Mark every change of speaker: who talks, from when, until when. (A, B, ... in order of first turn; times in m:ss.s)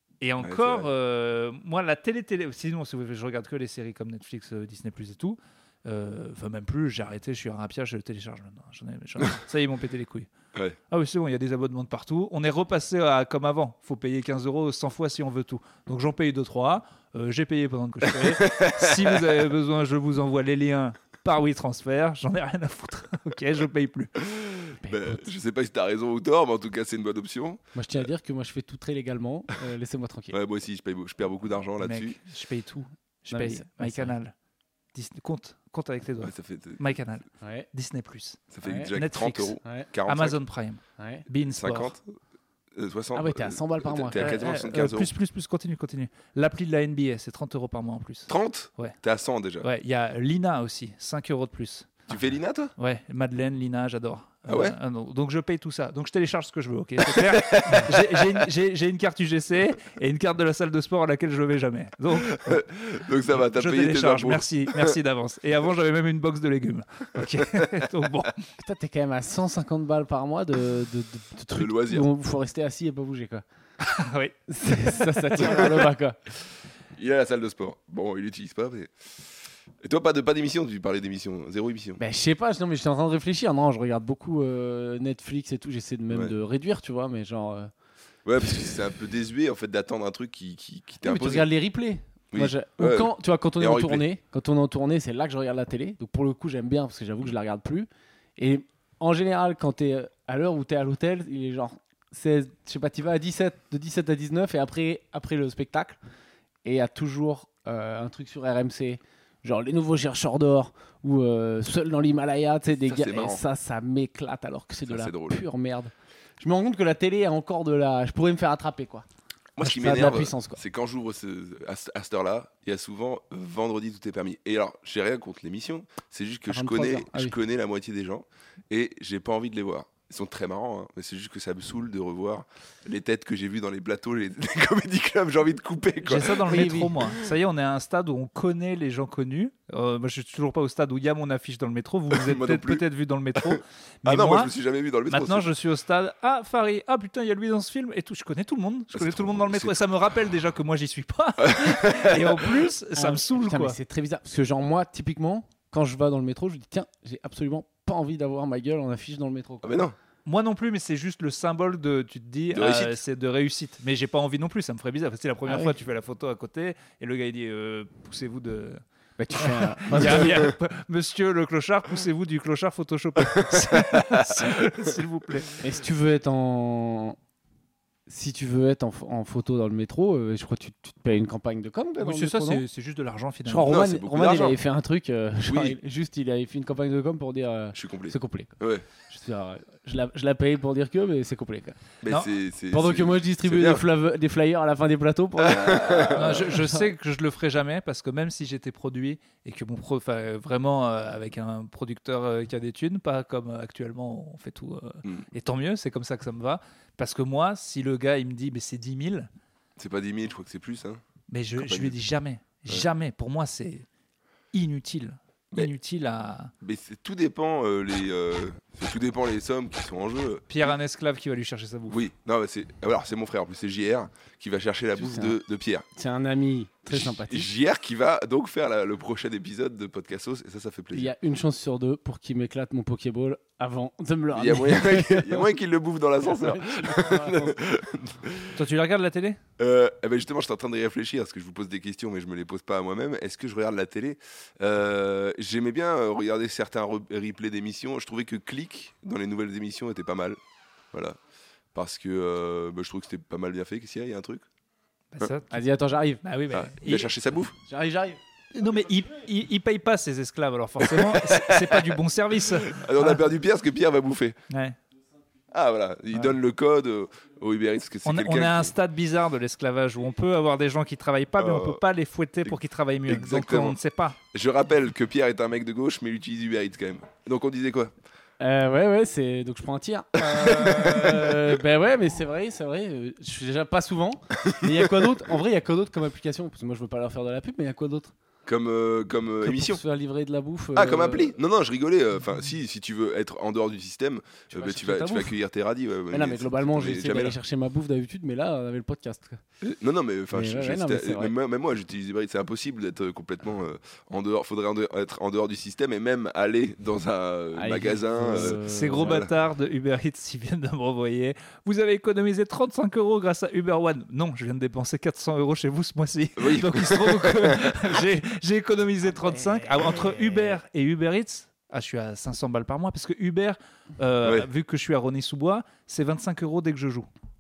0:00.2-0:10.3 A
0:00.4-0:00.9 B
0:10.9-0:24.1 A
0:18.0-0:19.5 B
0:24.2-0:27.6 B
0:24.8-0:25.2 C
0:27.8-0:30.4 C
0:30.3-0:32.2 B
0:31.8-0:34.3 A
0:33.3-0:34.1 C
0:34.9-0:41.9 A
0:36.2-0:36.8 B
0:37.4-0:37.7 C
0:38.5-0:40.4 B
0:38.6-0:38.9 C
0:41.0-0:41.2 C
0:41.4-0:42.2 B
0:42.8-0:45.1 B
0:43.1-0:44.4 C
0:44.2-0:49.0 A
0:48.3-0:49.7 B
0:49.6-0:52.1 A
0:52.1-0:52.7 B
0:52.8-1:02.6 A
0:54.5-0:54.8 B
0:57.0-0:58.2 B
1:02.2-1:04.9 B
1:03.3-1:08.4 A
1:08.6-1:13.4 C
1:11.5-1:12.1 B
1:13.8-1:15.7 A
1:14.5-1:16.2 C
1:17.0-1:18.9 B
1:19.8-1:22.0 B
1:22.0-1:27.7 C
1:26.1-1:26.3 B
1:28.2-1:31.5 B
1:31.0-1:46.0 C
1:32.3-1:34.0 B
1:46.6-1:59.0 C
1:52.8-1:53.4 B
1:54.9-1:55.4 B
1:59.6-2:16.8 B
1:59.6-2:00.6 C
2:06.5-2:07.4 C
2:16.0-2:24.5 A
2:16.5-2:17.0 C
2:22.1-2:22.8 B
2:23.4-2:25.5 B
2:25.1-2:33.8 A
2:28.9-2:29.7 B
2:31.4-2:32.5 B
2:33.0-2:39.8 C
2:39.6-2:40.0 B
2:40.2-2:48.8 A
2:42.5-2:43.0 B
2:45.5-2:45.8 C
2:49.2-2:50.5 C
2:49.3-2:55.6 A
2:49.9-2:50.5 B
2:53.3-2:54.9 B
2:55.6-2:57.2 C
2:58.1-3:02.6 C
3:02.0-3:03.7 A
3:03.5-3:11.8 C
3:03.7-3:04.6 B
3:05.5-3:05.8 B
3:07.7-3:08.9 B
3:12.0-3:13.8 B
3:12.7-3:16.9 C
3:15.4-3:16.6 B
3:16.1-3:29.3 A
3:29.8-3:31.0 B
3:31.3-3:33.9 A
3:31.6-3:32.0 B
3:34.5-3:36.5 A
3:36.6-3:40.4 B
3:40.5-3:42.0 A
3:41.9-3:45.9 B
3:45.0-3:45.4 C
3:46.0-3:47.5 C
3:46.9-3:51.1 B
3:50.9-3:55.5 C
3:54.3-3:58.6 B
3:56.2-3:57.6 C
3:58.5-3:59.4 A
3:59.6-4:10.4 B
4:11.7-4:14.4 B
4:15.1-4:15.6 A
4:15.5-4:16.2 C
4:16.2-4:17.1 A
4:16.5-4:17.6 B
4:17.6-4:18.2 C
4:18.5-4:23.2 A
4:20.8-4:22.0 B
4:22.5-4:24.4 B
4:24.5-4:24.8 A
4:25.5-4:28.7 B
4:28.0-4:34.2 A
4:31.4-4:31.8 B
4:33.1-4:33.8 B
4:34.3-4:37.9 B
4:38.4-4:48.1 C
4:40.2-4:41.5 B
4:44.4-4:45.1 B
4:48.5-4:49.8 B
4:49.4-4:51.4 C
4:50.8-4:57.4 B
4:54.5-4:55.4 C
4:56.1-4:59.4 C
4:59.6-5:09.3 B
5:00.3-5:01.3 C
5:07.5-5:09.2 C
5:08.4-5:27.1 A
5:16.4-5:17.8 B